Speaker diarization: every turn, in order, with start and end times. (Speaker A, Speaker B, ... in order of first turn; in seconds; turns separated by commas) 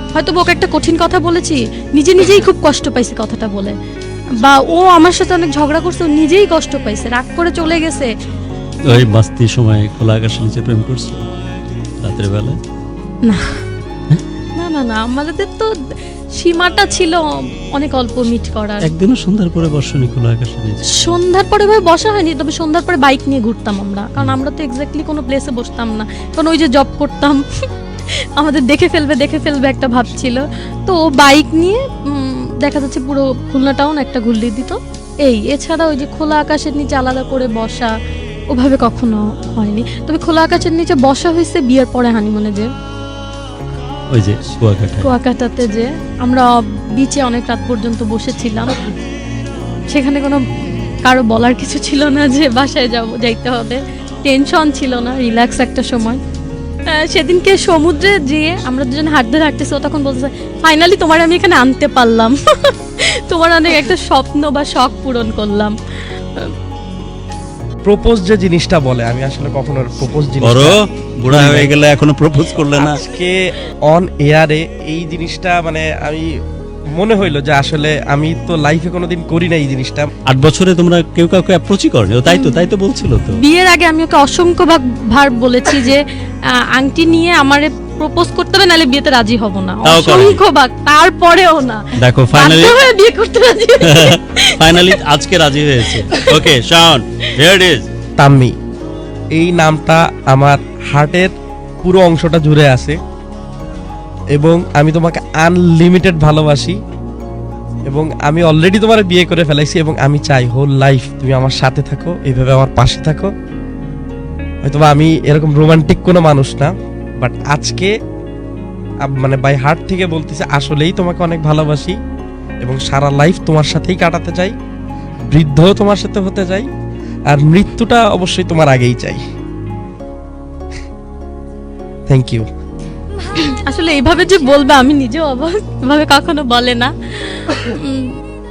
Speaker A: 0.1-3.8, Speaker A: 4.4-8.1, Speaker B: 8.8-11.2, Speaker B: 12.0-12.6, Speaker A: 13.2-13.6, Speaker A: 14.5-15.7, Speaker A: 16.3-18.9, Speaker B: 18.8-20.8, Speaker A: 20.9-27.4, Speaker A: 28.4-37.9, Speaker A: 38.5-42.7, Speaker B: 44.1-45.1, Speaker A: 45.0-48.8, Speaker A: 49.9-56.2, Speaker A: 56.9-66.5, Speaker C: 67.8-71.7, Speaker B: 70.4-73.0, Speaker C: 72.7-76.3, Speaker C: 76.9-80.1, Speaker B: 80.2-83.4, Speaker A: 82.3-82.7, Speaker A: 83.3-86.0, Speaker A: 86.6-95.0, Speaker B: 89.8-90.4, Speaker B: 92.0-92.8, Speaker B: 93.8-97.9, Speaker A: 96.0-96.4, Speaker C: 98.2-98.5, Speaker C: 99.3-101.3, Speaker C: 101.8-103.0, Speaker C: 104.3-106.8, Speaker C: 107.9-113.3, Speaker C: 114.6-117.9, Speaker C: 119.0-122.0, Speaker C: 122.6-124.5, Speaker C: 125.3-126.7, Speaker C: 127.3-129.2, Speaker C: 132.1-132.4, Speaker A: 133.2-138.2